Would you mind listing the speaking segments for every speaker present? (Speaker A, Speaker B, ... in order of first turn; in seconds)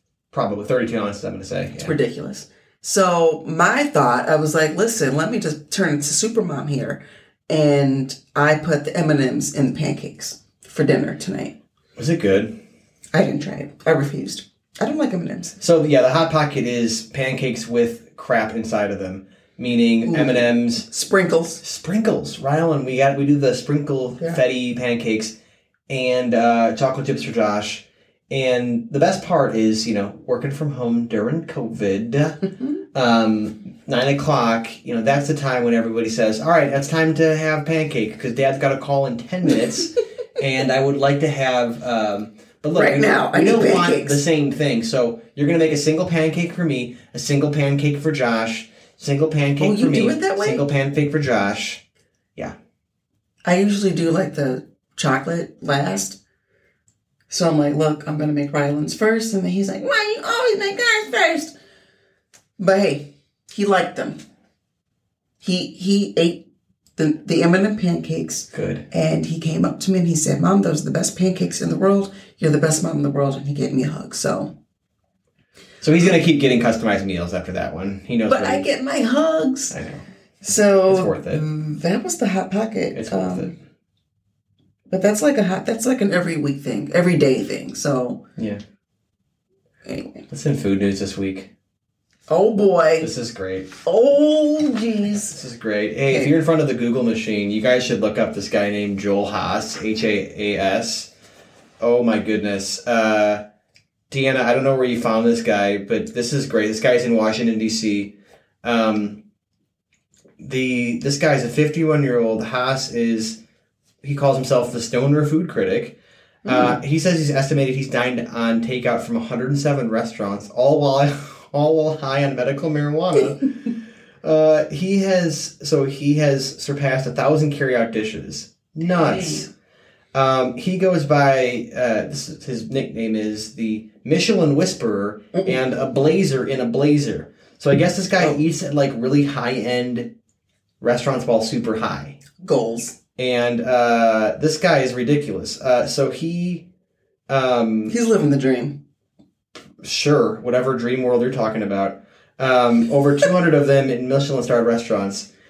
Speaker A: 0.3-2.0, 12.0-12.6, 15.6-20.9, 21.6-25.4, 25.9-32.4, 32.9-51.8, 68.5-68.9, 75.8-78.7, 79.7-80.0, 80.9-81.4, 82.9-83.5, 90.3-91.5, 93.0-93.7, 95.2-101.1, 101.8-103.4, 104.1-109.2, 110.4-113.4, 114.0-123.5, 124.2-129.5, 130.1-140.1, 140.8-142.2, 143.2-146.7, 147.3-147.9, 149.8-155.3
Speaker B: 1.8-11.6, 13.1-15.6, 20.1-21.6, 42.8-44.2, 49.6-50.6, 53.5-56.2, 57.3-61.5, 62.6-64.2, 65.4-74.5, 78.3-79.8, 80.4-83.5, 84.9-88.2, 89.8-90.2, 92.3-93.1, 93.8-95.3, 116.5-116.8, 128.9-129.5, 142.4-143.0, 147.9-148.8